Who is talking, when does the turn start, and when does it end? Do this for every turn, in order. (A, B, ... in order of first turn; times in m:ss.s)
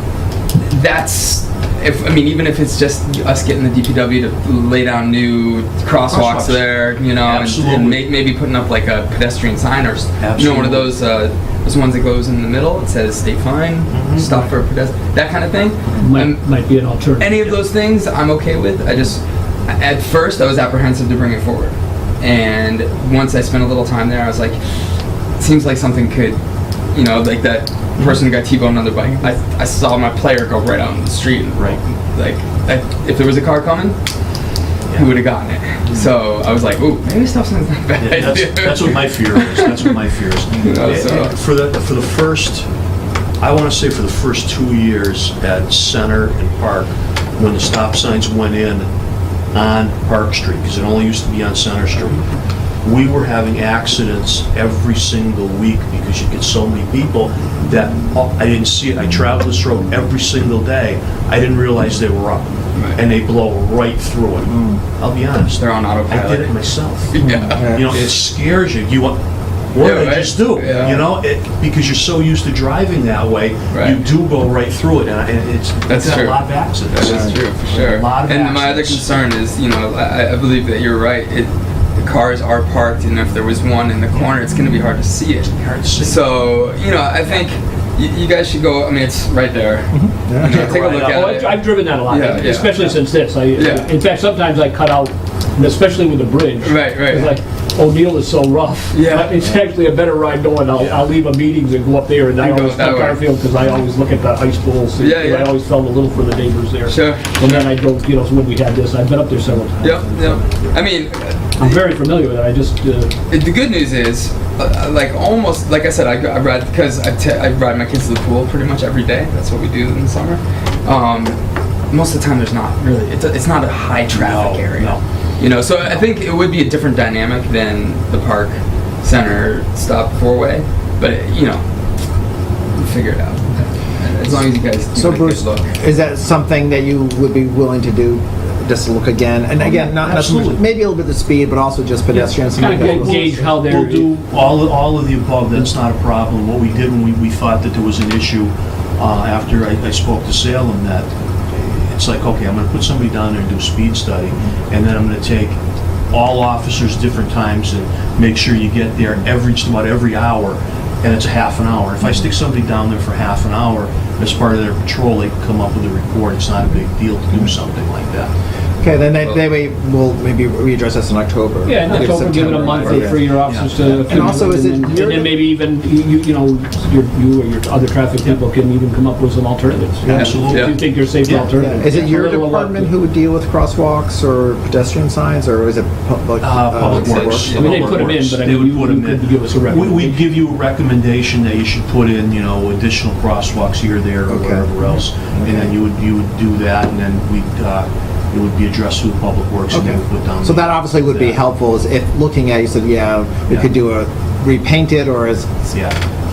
0:00.6-0:16.4 A
0:06.1-0:08.0 B
0:10.2-0:10.9 B
0:13.9-0:14.4 B
0:16.0-0:17.6 C
0:17.2-0:24.6 A
0:25.4-0:26.4 A
0:26.9-0:34.0 A
0:34.9-0:40.0 A
0:35.9-0:36.1 B
0:38.0-0:42.7 B
0:40.5-0:41.4 A
0:43.4-0:48.9 B
0:49.5-0:52.2 B
0:52.8-1:09.2 B
1:04.5-1:04.8 D
1:05.5-1:06.6 A
1:07.1-1:07.9 A
1:07.2-1:08.0 D
1:09.7-1:19.1 B
1:09.8-1:11.1 A
1:10.6-1:11.0 D
1:13.7-1:14.0 A
1:15.9-1:33.0 A
1:17.0-1:17.3 D
1:25.5-1:26.3 B
1:29.9-1:30.8 D
1:30.4-1:31.5 B
1:30.9-1:50.8 C
1:33.6-1:33.9 A
1:36.6-1:37.4 A
1:38.9-1:39.3 A
1:42.4-1:43.2 A
1:45.0-1:45.6 A
1:46.9-1:47.7 A
1:49.8-1:51.8 A
1:51.6-1:53.1 C
1:53.3-2:01.4 A
2:01.9-2:11.6 A
2:04.1-2:05.0 B
2:12.8-2:15.7 A
2:14.9-2:23.5 D
2:19.6-2:20.6 B
2:22.1-2:24.1 C
2:22.6-2:35.6 B
2:36.1-2:48.3 B
2:48.8-2:55.3 D
2:51.6-3:02.9 C
2:52.8-2:53.7 B
3:00.0-3:00.5 D
3:00.1-3:00.8 A
3:00.1-3:01.5 B
3:01.2-3:07.7 D
3:06.4-3:21.4 B
3:06.9-3:08.2 A
3:07.5-3:10.4 C
3:14.3-3:15.8 D
3:19.7-3:25.7 D
3:25.7-3:26.0 B